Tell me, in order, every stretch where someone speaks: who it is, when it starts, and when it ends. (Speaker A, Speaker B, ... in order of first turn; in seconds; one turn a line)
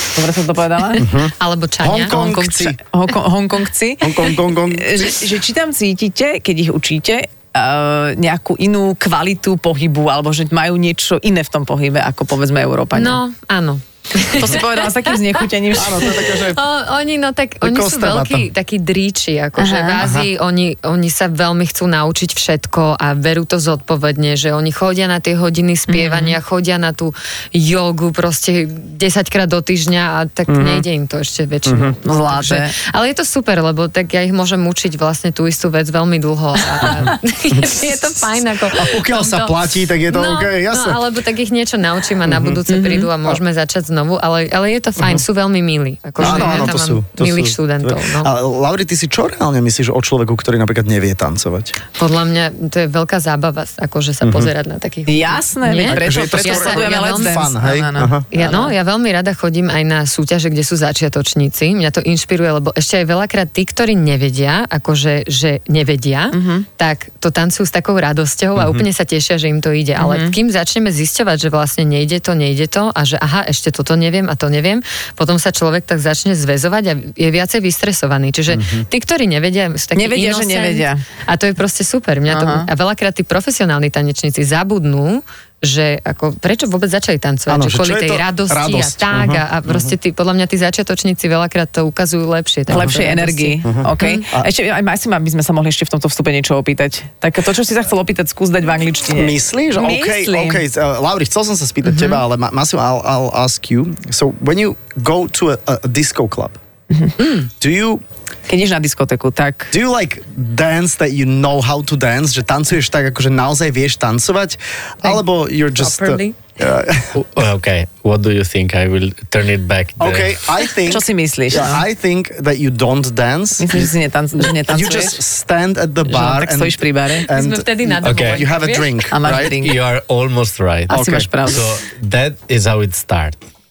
Speaker A: 0.1-1.1
Speaker B: 0.9-2.8
Speaker C: 1.0-2.8
Speaker A: 2.1-13.2
Speaker C: 4.0-5.1
Speaker B: 12.9-15.4
Speaker A: 14.3-16.3
Speaker C: 15.7-16.6
Speaker B: 16.5-39.5
Speaker C: 17.6-18.5
Speaker A: 19.6-20.0
Speaker C: 20.0-20.3
Speaker A: 25.9-26.4
Speaker C: 30.5-30.8
Speaker C: 31.6-31.9
Speaker A: 32.0-32.7
Speaker C: 37.0-37.9
Speaker C: 38.7-41.0
Speaker B: 40.1-48.3
Speaker C: 42.3-42.6
Speaker A: 42.7-43.1
Speaker A: 46.2-46.7
Speaker C: 46.2-51.8
Speaker B: 52.0-57.5
Speaker C: 54.2-54.5
Speaker A: 55.1-58.7
Speaker C: 55.9-58.6
Speaker B: 58.3-94.2
Speaker A: 66.3-66.7
Speaker C: 68.6-68.8
Speaker A: 70.0-70.3
Speaker C: 78.5-78.8
Speaker A: 79.9-81.0
Speaker A: 82.3-82.7
Speaker C: 87.5-89.9
Speaker A: 92.7-100.6
Speaker C: 92.7-93.0
Speaker C: 93.6-94.5
Speaker C: 99.1-106.6
Speaker B: 101.9-102.2
Speaker B: 107.2-107.5
Speaker C: 107.6-108.0
Speaker A: 108.5-109.7
Speaker C: 109.7-117.2
Speaker B: 115.7-116.4
Speaker D: 117.1-120.5
Speaker C: 120.0-129.7
Speaker A: 120.8-121.8
Speaker A: 123.6-125.2
Speaker A: 126.0-127.3
Speaker B: 127.3-129.0
Speaker D: 128.0-128.4
Speaker A: 129.1-129.8
Speaker D: 129.4-133.4
Speaker A: 130.9-131.7
Speaker C: 130.9-131.3